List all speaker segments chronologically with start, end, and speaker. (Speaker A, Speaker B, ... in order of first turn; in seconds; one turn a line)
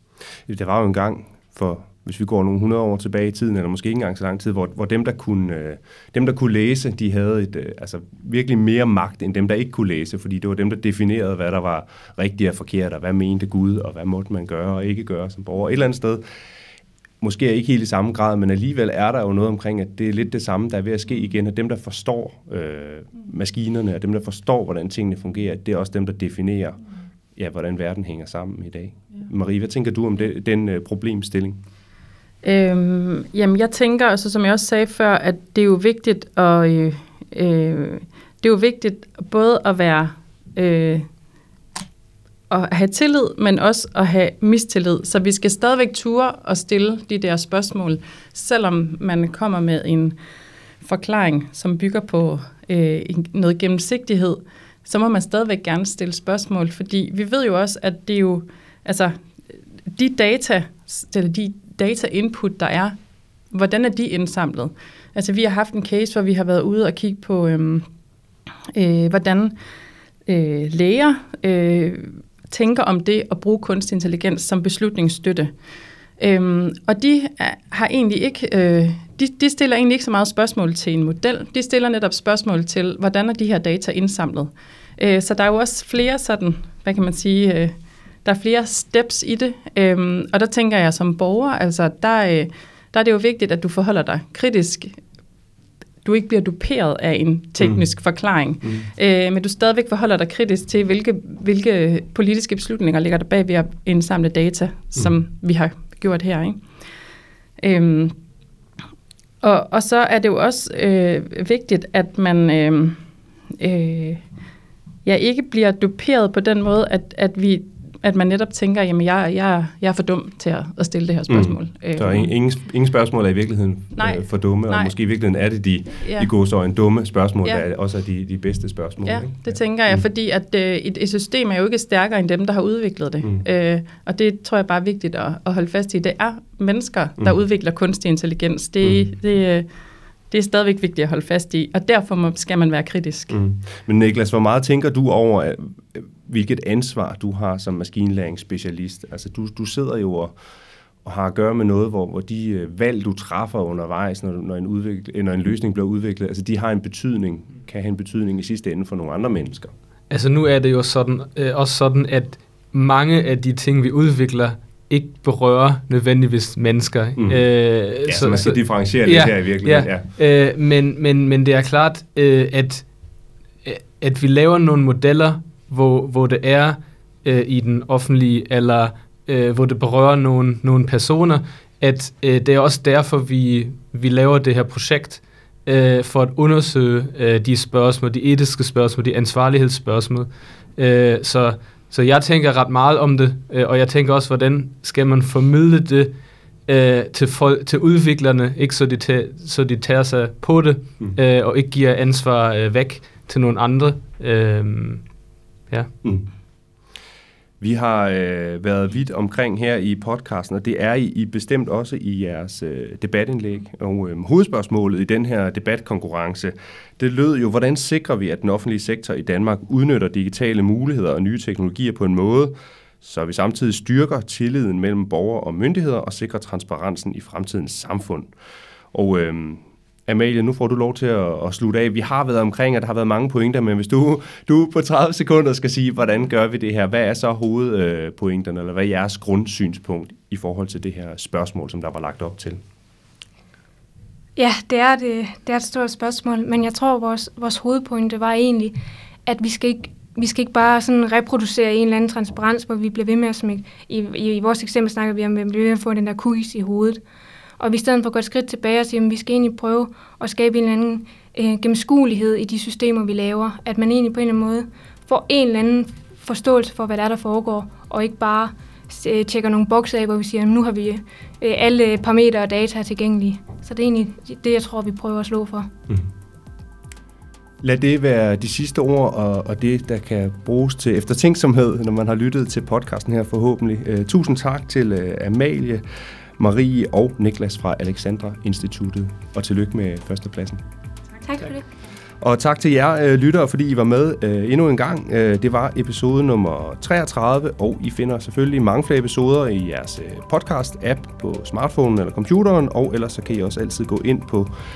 Speaker A: 0.5-16.2
Speaker A: 17.2-26.8
Speaker A: 27.3-31.6
Speaker B: 32.4-41.0
Speaker B: 42.5-50.1
Speaker B: 50.8-59.2
Speaker B: 59.9-63.0
Speaker B: 63.5-67.8
Speaker B: 68.7-69.5
Speaker B: 70.3-75.5
Speaker B: 76.2-95.0
Speaker B: 96.0-106.7
Speaker B: 107.6-108.2
Speaker B: 109.4-113.0
Speaker B: 113.6-114.2
Speaker B: 115.0-122.3
Speaker A: 121.3-130.0
Speaker B: 124.0-124.9
Speaker B: 126.0-126.3
Speaker B: 129.0-139.7
Speaker B: 140.3-143.4
Speaker A: 143.3-150.3
Speaker A: 151.0-159.7
Speaker C: 160.1-172.9
Speaker A: 167.2-167.4
Speaker A: 168.0-170.1
Speaker C: 173.6-196.1
Speaker C: 196.7-205.1
Speaker A: 207.6-228.3
Speaker A: 228.9-242.6
Speaker D: 244.3-257.0
Speaker D: 257.6-275.7
Speaker A: 277.6-285.8
Speaker A: 286.4-290.6
Speaker D: 291.2-291.6
Speaker A: 292.2-304.5